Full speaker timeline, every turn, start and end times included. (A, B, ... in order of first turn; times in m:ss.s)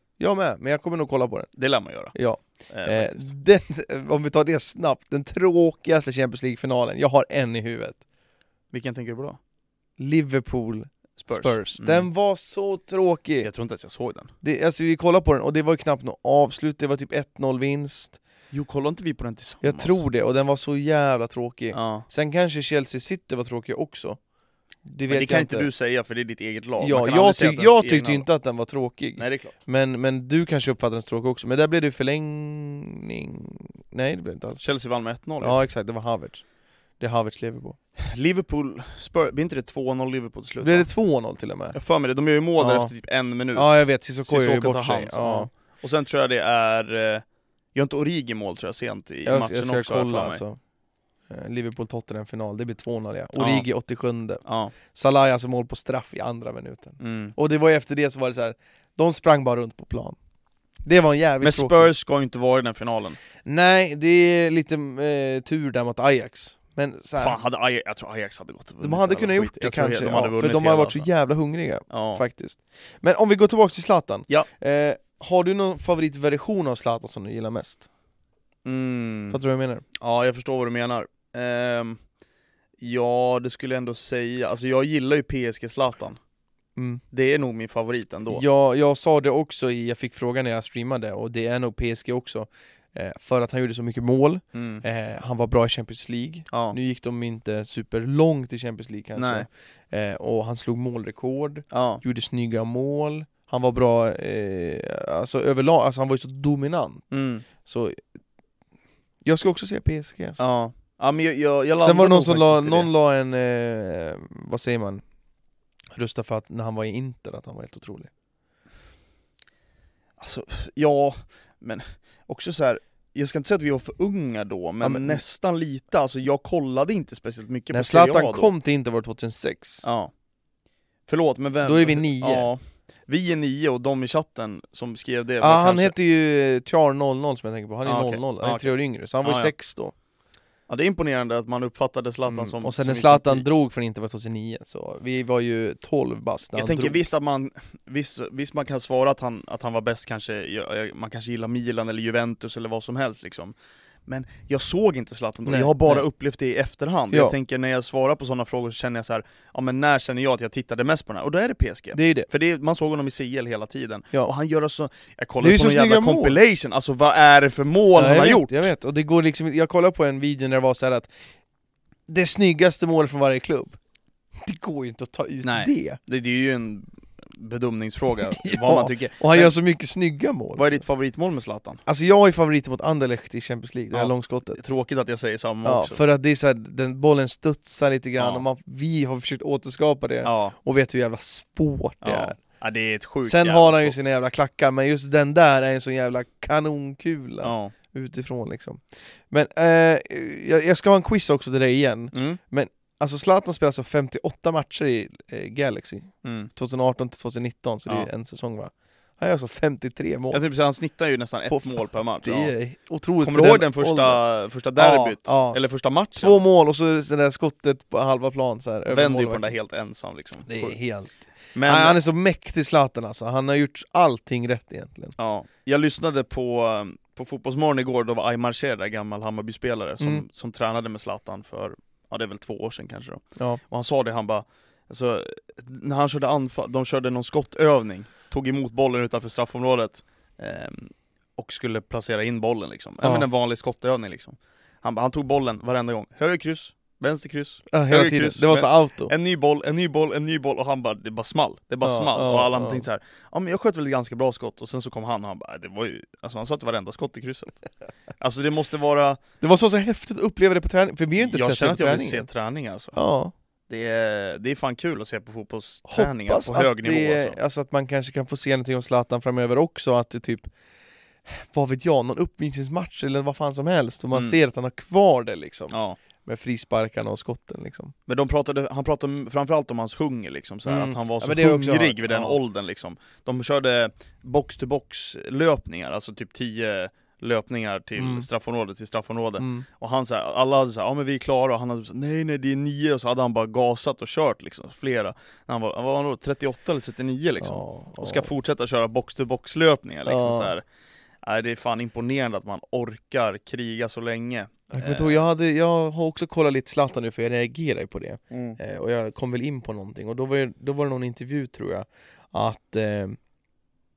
0:00.2-0:01.5 A
0:01.6-0:02.2 B
0:02.1-0:08.0 A
0:02.7-0:03.3 B
0:08.7-0:09.4 B
0:10.0-0:13.5 A
0:11.2-0:12.1 B
0:13.4-0:14.3 B
0:14.4-0:18.2 A
0:18.5-0:20.0 B
0:19.6-0:24.2 A
0:21.7-0:22.1 B
0:24.8-0:25.7 A
0:25.1-0:28.3 B
0:26.8-0:34.6 A
0:29.2-0:29.6 B
0:34.6-0:35.6 B
0:35.4-0:36.4 A
0:37.0-0:37.8 A
0:38.0-0:40.9 B
0:40.6-0:41.8 A
0:41.7-0:50.4 B
0:42.6-0:42.9 A
0:43.6-0:45.5 A
0:49.3-0:50.6 A
0:51.3-1:00.2 A
0:53.4-0:53.7 B
0:54.4-0:54.7 B
0:57.0-0:57.4 B
1:00.8-1:01.9 A
1:01.4-1:03.2 B
1:03.4-1:07.4 A
1:07.2-1:11.1 B
1:08.8-1:17.9 A
1:11.9-1:12.2 B
1:18.6-1:19.4 B
1:19.3-1:19.8 A
1:20.0-1:22.0 B
1:22.8-1:26.2 B
1:26.8-1:27.0 A
1:27.1-1:28.4 B
1:28.3-1:47.1 A
1:34.5-1:34.8 B
1:36.5-1:36.8 B
1:39.2-1:39.5 B
1:41.7-1:42.0 B
1:47.1-1:47.4 B
1:47.6-1:48.0 A
1:49.2-1:50.4 A
1:50.4-1:52.9 B
1:51.8-1:55.0 A
1:55.9-1:58.1 A
2:00.2-2:08.5 B
2:04.8-2:05.2 A
2:07.7-2:09.9 A
2:09.8-2:10.1 B
2:11.1-2:16.0 B
2:11.6-2:12.5 A
2:15.4-2:19.9 A
2:17.8-2:19.5 B
2:20.7-2:23.5 B
2:22.3-2:27.0 A
2:26.6-2:33.6 B
2:34.1-2:48.7 B
2:35.5-2:36.1 A
2:42.0-2:42.3 A
2:45.4-2:46.4 A
2:48.0-2:51.1 A
2:52.1-2:53.8 A
2:54.4-2:56.0 A
2:55.4-2:59.6 B
2:58.2-3:00.8 A
3:00.6-3:01.8 B
3:01.9-3:04.6 A
3:03.9-3:06.0 B
3:05.6-3:12.4 A
3:08.2-3:08.4 B
3:10.2-3:10.6 B
3:12.0-3:14.0 B
3:13.2-3:30.4 A
3:17.4-3:17.7 B
3:22.1-3:22.4 B
3:26.2-3:26.5 B
3:30.3-3:32.5 B
3:31.5-3:34.2 A
3:33.2-3:36.4 B
3:34.8-3:39.6 A
3:38.9-3:40.8 B
3:40.5-3:45.1 A
3:41.6-3:42.0 B
3:45.2-4:17.6 B
4:03.0-4:03.3 A
4:07.7-4:09.1 A
4:11.8-4:12.9 A
4:18.2-4:19.2 B
4:19.4-4:22.3 A
4:21.2-4:23.0 B
4:23.0-4:23.3 A
4:23.7-4:27.4 B
4:25.9-4:30.5 A
4:31.3-4:37.9 A
4:35.7-4:36.0 B
4:38.1-5:00.6 B
4:40.7-4:42.4 A
4:48.0-4:48.3 A
4:49.4-4:49.7 A
4:57.4-4:58.3 A
5:00.1-5:00.5 A
5:01.2-5:05.2 B
5:04.7-5:13.2 A
5:08.3-5:08.6 B